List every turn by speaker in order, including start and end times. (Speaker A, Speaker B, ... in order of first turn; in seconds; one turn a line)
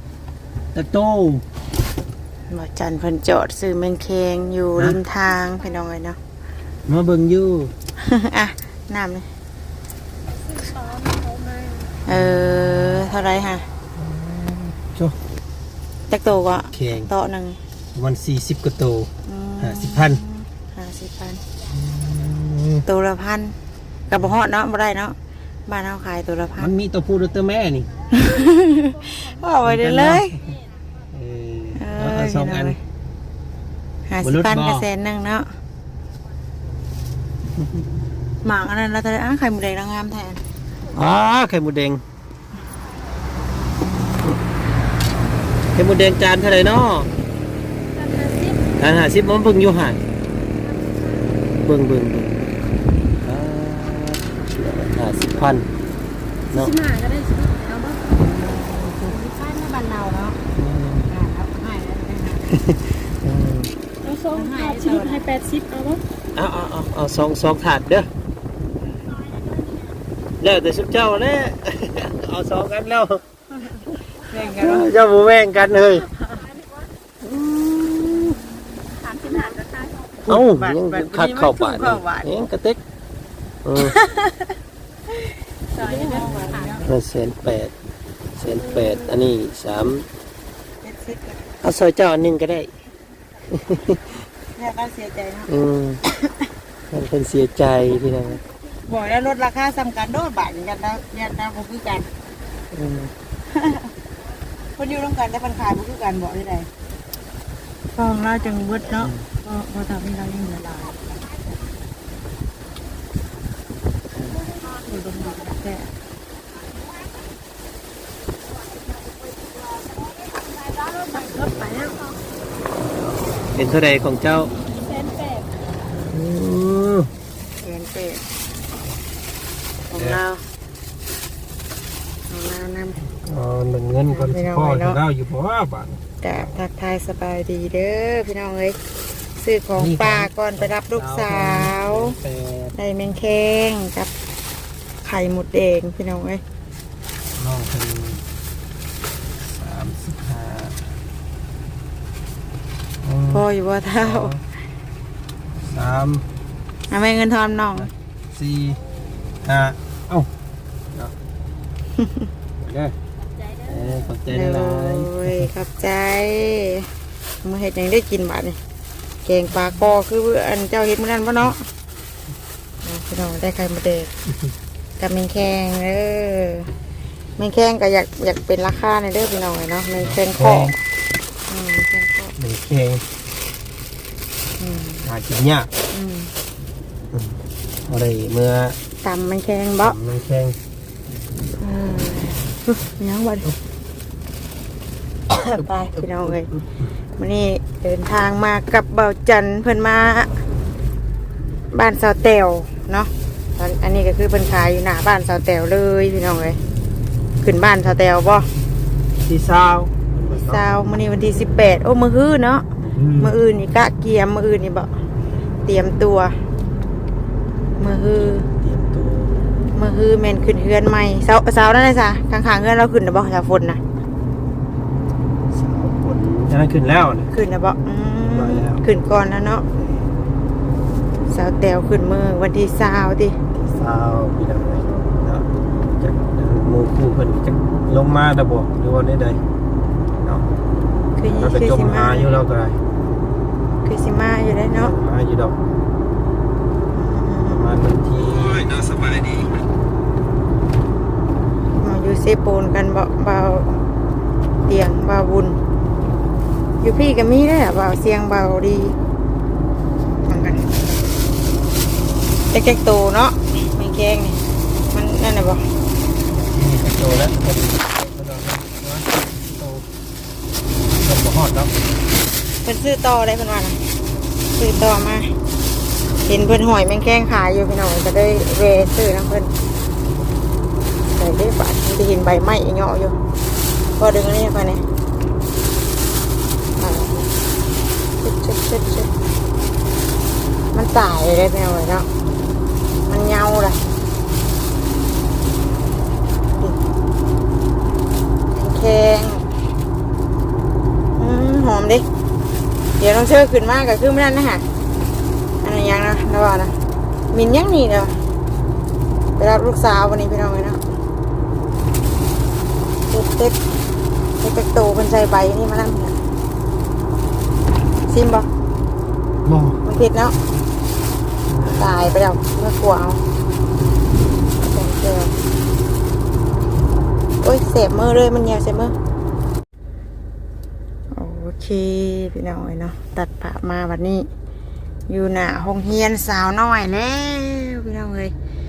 Speaker A: 0.7-1.4
Speaker B: 2.5-6.2
Speaker A: 6.9-7.7
Speaker B: 8.0-9.3
Speaker C: 10.8-11.3
Speaker B: 12.1-13.7
Speaker A: 12.1-13.1
Speaker A: 14.0-15.2
Speaker B: 16.1-17.6
Speaker A: 16.7-17.1
Speaker A: 17.9-20.2
Speaker B: 19.3-21.4
Speaker A: 21.7-22.9
Speaker B: 22.9-23.6
Speaker B: 24.1-25.2
Speaker B: 25.7-26.7
Speaker A: 26.6-27.9
Speaker B: 28.1-30.4
Speaker A: 29.6-30.5
Speaker A: 31.1-32.8
Speaker B: 31.8-32.8
Speaker B: 34.1-35.5
Speaker A: 34.2-34.9
Speaker B: 38.4-40.4
Speaker A: 40.9-42.0
Speaker A: 45.7-47.1
Speaker C: 48.1-48.6
Speaker A: 48.7-50.0
Speaker A: 51.2-52.5
Speaker A: 53.2-55.7
Speaker A: 56.5-56.8
Speaker C: 56.6-58.0
Speaker A: 58.2-59.0
Speaker B: 58.8-60.4
Speaker A: 60.5-61.1
Speaker B: 61.1-62.5
Speaker A: 62.6-63.7
Speaker C: 64.1-66.0
Speaker B: 64.3-65.3
Speaker A: 66.3-68.1
Speaker A: 70.4-73.2
Speaker B: 74.3-74.9
Speaker A: 74.5-76.1
Speaker A: 77.2-78.4
Speaker B: 80.2-82.5
Speaker A: 80.3-82.8
Speaker A: 83.6-84.0
Speaker B: 83.9-84.5
Speaker B: 85.7-86.9
Speaker A: 86.1-87.7
Speaker A: 88.4-90.1
Speaker B: 90.8-91.5
Speaker A: 91.6-92.7
Speaker A: 93.5-94.1
Speaker B: 94.6-95.5
Speaker A: 95.5-96.0
Speaker B: 96.1-96.5
Speaker A: 96.9-98.4
Speaker B: 98.9-102.1
Speaker A: 102.7-103.1
Speaker B: 103.5-103.9
Speaker B: 104.8-106.7
Speaker B: 108.0-111.0
Speaker A: 109.0-109.2
Speaker B: 114.7-115.9
Speaker B: 121.1-122.0
Speaker A: 123.5-124.5
Speaker A: 126.1-127.1
Speaker B: 127.6-128.2
Speaker B: 129.9-130.4
Speaker B: 132.3-133.0
Speaker A: 133.1-136.0
Speaker B: 134.1-135.0
Speaker B: 136.2-138.8
Speaker B: 139.4-142.2
Speaker A: 139.8-142.8
Speaker B: 142.8-144.1
Speaker B: 145.0-146.4
Speaker A: 147.3-148.2
Speaker A: 149.4-150.9
Speaker A: 153.0-153.5
Speaker B: 153.3-154.3
Speaker A: 154.0-154.4
Speaker A: 155.6-156.3
Speaker B: 156.9-157.9
Speaker A: 157.8-158.8
Speaker A: 159.4-160.3
Speaker A: 162.6-163.0
Speaker A: 163.7-165.5
Speaker B: 164.3-166.9
Speaker B: 167.4-168.6
Speaker B: 169.2-171.7
Speaker B: 172.8-174.1
Speaker B: 175.0-176.7
Speaker B: 177.4-180.8
Speaker A: 180.0-180.8
Speaker B: 181.5-182.3
Speaker A: 182.4-183.0
Speaker B: 184.6-185.1
Speaker A: 185.0-185.7
Speaker B: 185.9-186.3
Speaker A: 187.1-188.8
Speaker B: 189.0-190.0
Speaker A: 189.8-190.6
Speaker B: 191.6-193.5
Speaker B: 195.3-196.5
Speaker A: 195.6-196.7
Speaker B: 197.2-200.4
Speaker B: 201.7-206.6
Speaker B: 207.4-208.5
Speaker A: 209.2-210.7
Speaker B: 210.3-212.7
Speaker A: 212.8-213.3
Speaker B: 213.2-214.9
Speaker B: 215.7-216.4
Speaker B: 217.8-218.5
Speaker A: 218.6-219.5
Speaker B: 219.7-223.8
Speaker A: 225.5-227.3
Speaker B: 227.3-229.7
Speaker A: 228.2-228.8
Speaker B: 231.3-233.4
Speaker A: 233.5-239.4
Speaker A: 240.1-240.4
Speaker B: 241.2-242.4
Speaker A: 241.4-242.8
Speaker B: 243.8-244.9
Speaker A: 244.8-245.6
Speaker B: 246.9-247.7
Speaker A: 247.5-249.2
Speaker B: 251.7-253.8
Speaker B: 254.7-255.6
Speaker B: 256.8-259.0
Speaker B: 260.2-260.7
Speaker B: 262.5-264.4
Speaker B: 264.9-265.7
Speaker A: 266.4-269.9
Speaker A: 270.9-271.7
Speaker B: 272.6-273.8
Speaker B: 274.6-275.3
Speaker B: 276.3-279.5
Speaker B: 281.1-283.2
Speaker B: 284.0-284.8
Speaker B: 286.8-287.2
Speaker B: 288.2-289.1
Speaker B: 290.7-292.1
Speaker B: 293.1-293.8
Speaker B: 298.5-299.4
Speaker B: 301.2-302.1
Speaker B: 303.0-304.6
Speaker B: 305.6-306.7
Speaker B: 307.3-308.2
Speaker B: 309.4-310.8
Speaker B: 313.1-313.6
Speaker B: 314.4-316.2
Speaker B: 318.1-318.5
Speaker A: 319.4-319.8
Speaker B: 319.9-320.4
Speaker A: 321.5-322.2
Speaker B: 321.8-323.2
Speaker B: 324.6-325.3
Speaker B: 327.4-328.9
Speaker B: 331.1-334.3
Speaker B: 335.1-338.3